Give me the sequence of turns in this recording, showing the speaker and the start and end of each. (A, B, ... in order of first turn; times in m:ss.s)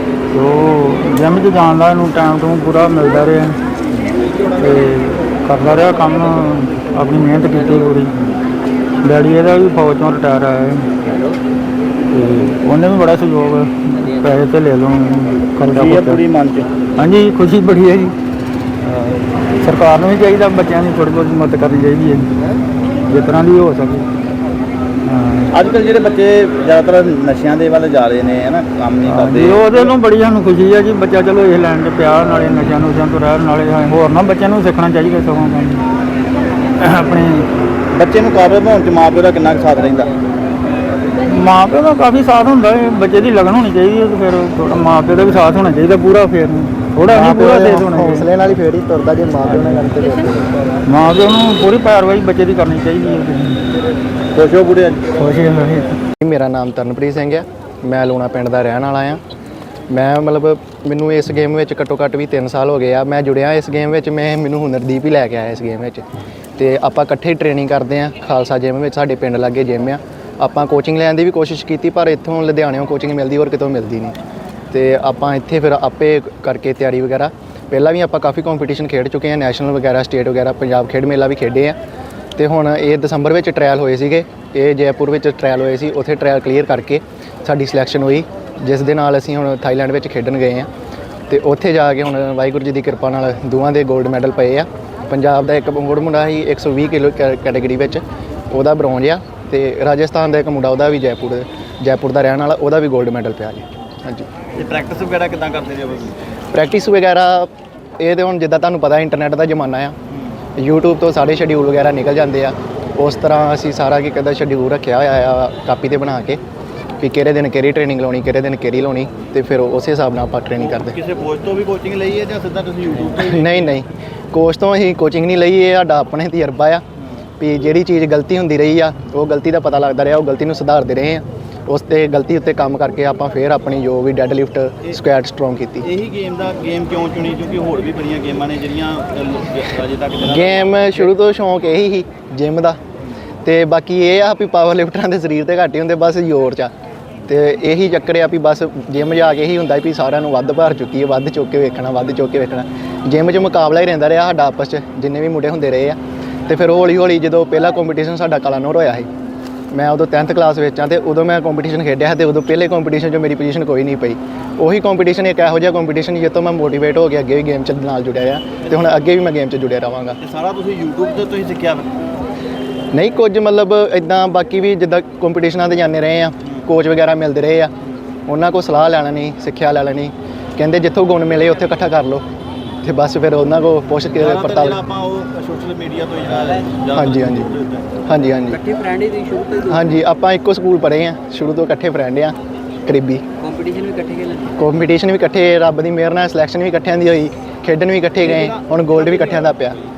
0:00.3-0:03.6 A
0:04.6-0:08.1 A
0:09.0-0:10.9 A
0:12.1-0:16.2 A
0:15.7-0:16.7 B
0:17.0-0:18.1 A
0:18.8-0:22.3 A
0:23.1-0:24.1 A
0:25.0-0:25.5 A
0:25.5-0:29.9 B
0:29.1-0:35.8 A
0:36.8-0:37.5 A
0:37.9-0:40.1 B
0:41.3-0:48.3 A
0:47.1-0:50.4 C
0:50.9-0:53.6 A
0:54.3-0:55.1 B
0:55.2-0:56.0 A
0:56.2-0:59.2 C
0:59.9-1:06.0 C
1:06.6-1:14.2 C
1:14.7-1:21.8 C
1:22.4-1:30.7 C
1:31.3-1:44.3 C
1:44.5-1:46.3 B
1:46.5-1:49.9 C
1:50.6-1:56.4 C
1:57.0-2:01.0 C
2:00.6-2:03.7 B
2:03.2-2:06.8 C
2:07.4-2:15.8 C
2:15.8-2:21.1 B
2:20.2-2:22.8 C
2:23.4-2:26.7 C
2:27.3-2:39.1 C
2:39.7-2:50.2 C
2:50.2-2:52.0 B
2:52.9-2:57.7 C
2:58.3-3:02.2 C
3:02.8-3:04.8 C
3:04.1-3:07.9 B
3:06.9-3:07.5 C
3:08.1-3:08.6 C
3:08.5-3:09.9 D
3:09.7-3:13.2 C
3:13.4-3:14.6 D
3:14.6-3:19.8 C
3:18.2-3:19.4 B